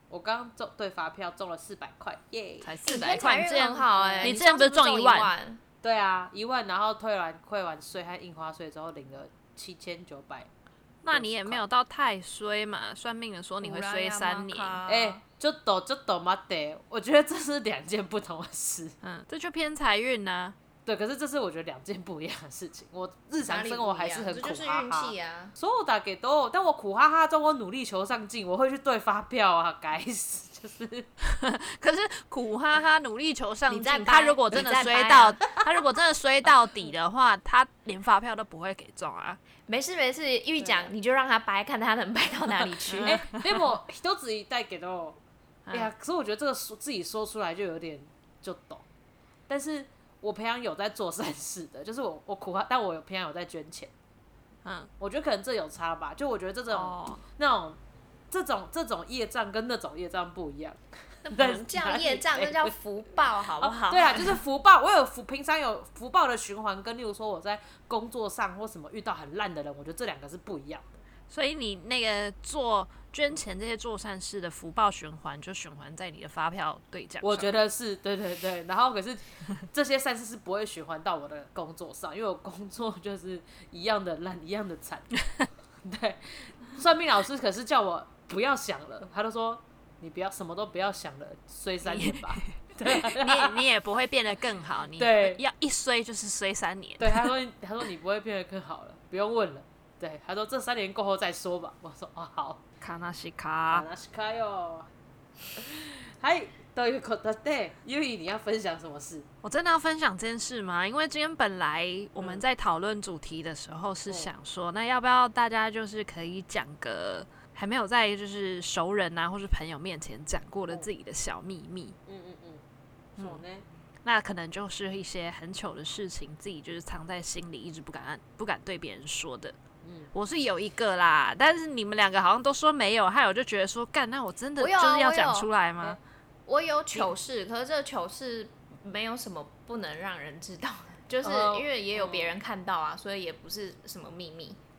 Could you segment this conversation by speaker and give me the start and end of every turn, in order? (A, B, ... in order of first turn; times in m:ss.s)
0:00.1-0:02.8 A
0:02.6-0:05.3 B
0:02.8-0:05.6 C
0:04.0-0:04.4 A
0:05.8-0:10.5 A
0:11.0-0:14.8 B
0:11.1-0:11.6 A
0:13.6-0:15.2 C
0:14.9-0:18.9 A
0:19.0-0:20.5 B
0:20.8-0:31.1 A
0:23.4-0:25.5 C
0:31.2-0:39.4 B
0:33.7-0:35.4 C
0:39.7-0:43.2 C
0:40.6-0:40.9 A
0:42.8-0:43.5 B
0:43.0-0:45.2 A
0:45.7-0:48.8 A
0:49.5-0:53.9 A
0:54.6-0:54.9 B
0:55.0-0:57.8 A
0:56.7-0:57.2 B
0:58.3-1:02.7 A
1:01.2-1:04.4 C
1:03.6-1:11.0 A
1:11.3-1:17.5 B
1:17.2-1:25.1 A
1:25.8-1:33.6 A
1:31.8-1:37.3 B
1:35.0-1:35.4 A
1:37.0-1:42.6 A
1:42.8-1:43.9 B
1:43.7-1:44.9 A
1:45.6-1:49.3 A
1:49.4-2:02.0 B
2:02.0-2:02.6 A
2:03.2-2:03.6 A
2:04.0-2:09.6 B
2:09.8-2:10.1 A
2:10.1-2:16.0 B
2:14.6-2:15.5 C
2:16.5-2:24.6 C
2:21.2-2:22.4 A